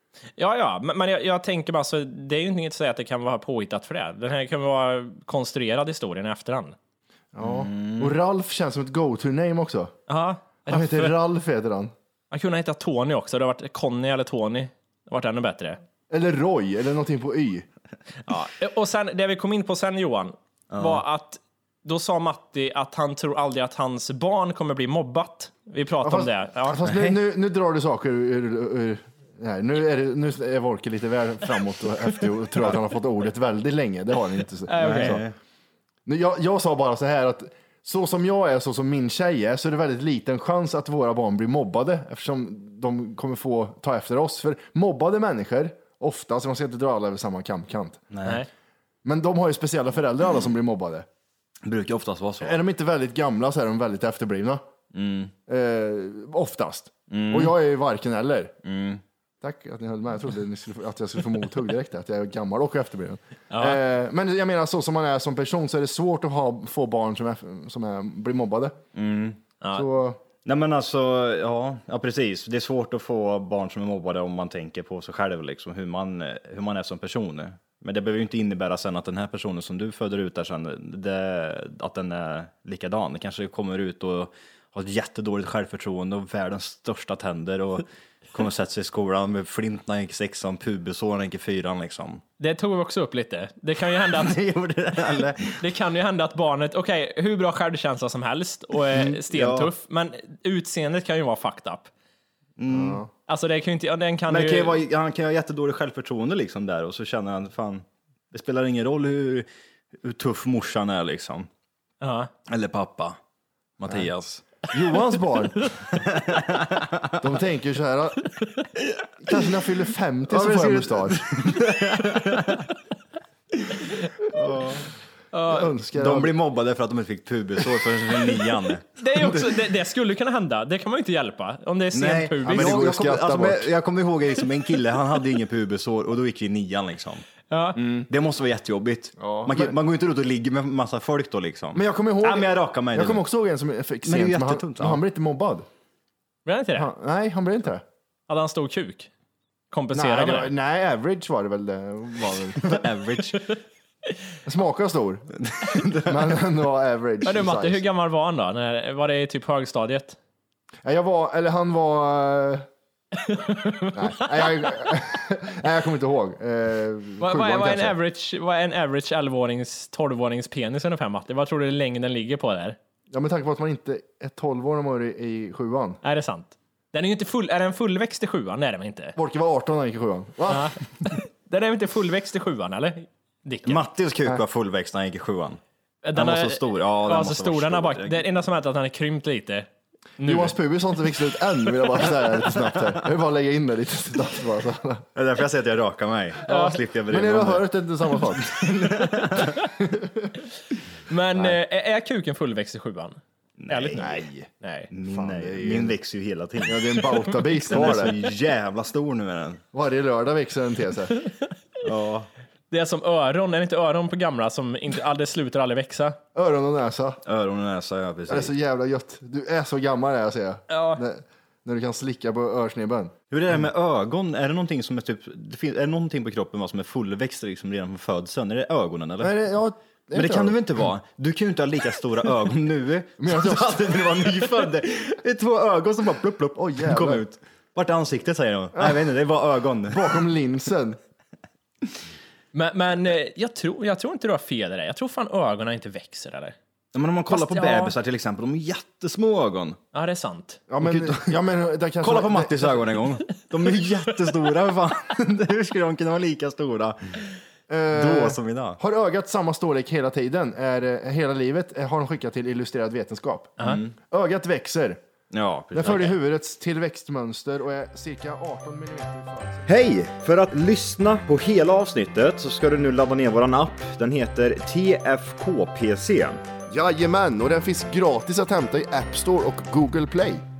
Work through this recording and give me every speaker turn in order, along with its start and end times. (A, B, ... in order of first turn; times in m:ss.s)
0:00.4-0:06.8 A
0:07.3-0:09.9 B
0:07.4-0:08.1 C
0:10.1-0:11.2 A
0:10.7-0:11.9 B
0:12.3-0:15.8 A
0:16.1-0:17.6 B
0:18.3-0:26.8 A
0:20.7-0:21.0 C
0:26.0-0:35.3 B
0:26.8-0:27.2 C
0:34.7-0:35.2 A
0:34.8-0:35.3 C
0:36.0-0:48.0 B
0:48.1-0:48.4 C
0:49.0-0:51.0 B
0:51.6-0:52.6 C
0:52.4-0:54.6 B
0:54.9-0:55.3 C
0:55.5-0:58.5 B
0:57.1-0:57.5 C
0:58.6-0:59.0 C
0:59.4-1:08.8 B
1:03.5-1:03.8 A
1:08.9-1:09.4 C
1:09.6-1:09.8 A
1:09.7-1:10.2 B
1:10.4-1:32.2 C
1:32.4-1:34.4 A
1:34.1-1:35.6 C
1:35.6-1:41.9 A
1:38.9-1:39.7 C
1:42.6-1:43.0 C
1:42.7-1:43.1 B
1:43.3-1:44.8 A
1:44.3-1:49.5 C
1:50.0-1:51.5 C
1:52.0-1:52.3 A
1:52.5-1:53.2 C
1:53.8-1:54.4 C
1:54.7-1:55.7 B
1:55.9-1:57.2 C
1:57.2-1:58.3 B
1:59.2-2:01.2 B
2:00.3-2:02.7 C
2:03.8-2:04.1 A
2:04.3-2:04.9 C
2:05.3-2:05.7 A
2:05.4-2:06.3 B
2:06.0-2:09.5 C
2:09.0-2:12.8 A
2:11.9-2:17.3 C
2:12.4-2:13.7 B
2:17.5-2:17.8 A
2:17.8-2:23.2 C
2:19.2-2:19.7 B
2:21.7-2:25.6 B
2:24.0-2:25.0 C
2:26.4-2:26.9 A
2:26.8-2:27.8 B
2:28.3-2:29.1 A
2:29.7-2:30.5 A
2:29.9-2:32.8 B
2:32.6-2:33.5 C
2:34.4-2:35.3 B
2:35.4-2:36.4 C
2:36.0-2:37.8 B
2:37.2-2:40.2 A
2:40.8-2:42.6 B
2:43.2-2:44.9 A
2:43.9-2:48.0 B
2:47.2-2:52.8 A
2:53.1-2:56.0 B
2:56.0-2:59.2 A
2:59.2-3:00.7 B
3:00.5-3:03.8 A
3:03.6-3:05.6 C
3:06.0-3:09.7 A
3:06.1-3:08.2 C
3:10.2-3:10.5 A
3:10.2-3:15.0 B
3:15.1-3:19.6 C
3:16.4-3:16.8 A
3:17.1-3:19.1 B
3:19.8-3:20.3 B
3:21.1-3:24.9 A
3:23.6-3:24.1 C
3:24.0-3:24.5 B
3:24.9-3:29.6 C
3:25.1-3:26.0 B
3:26.6-3:28.1 B
3:27.5-3:28.1 A
3:29.7-3:31.2 B
3:31.8-3:32.3 C
3:32.7-3:36.2 A
3:36.3-3:37.2 B
3:37.2-3:38.5 C
3:38.3-3:43.1 B
3:40.7-3:41.0 A
3:43.3-3:49.4 C
3:49.2-3:50.6 B
3:50.1-4:00.2 C
3:53.2-3:54.0 B
3:56.6-3:57.2 B
3:58.7-3:59.1 B
3:59.9-4:01.0 B
4:02.5-4:06.5 A
4:06.9-4:09.8 C
4:07.3-4:07.9 A
4:09.9-4:10.6 A
4:10.7-4:13.0 B
4:10.8-4:11.4 C
4:12.0-4:17.2 C
4:17.7-4:25.0 B
4:17.9-4:18.8 C
4:23.6-4:23.9 C
4:25.3-4:26.2 C
4:25.7-4:29.7 B
4:29.7-4:36.4 C
4:36.7-4:40.4 B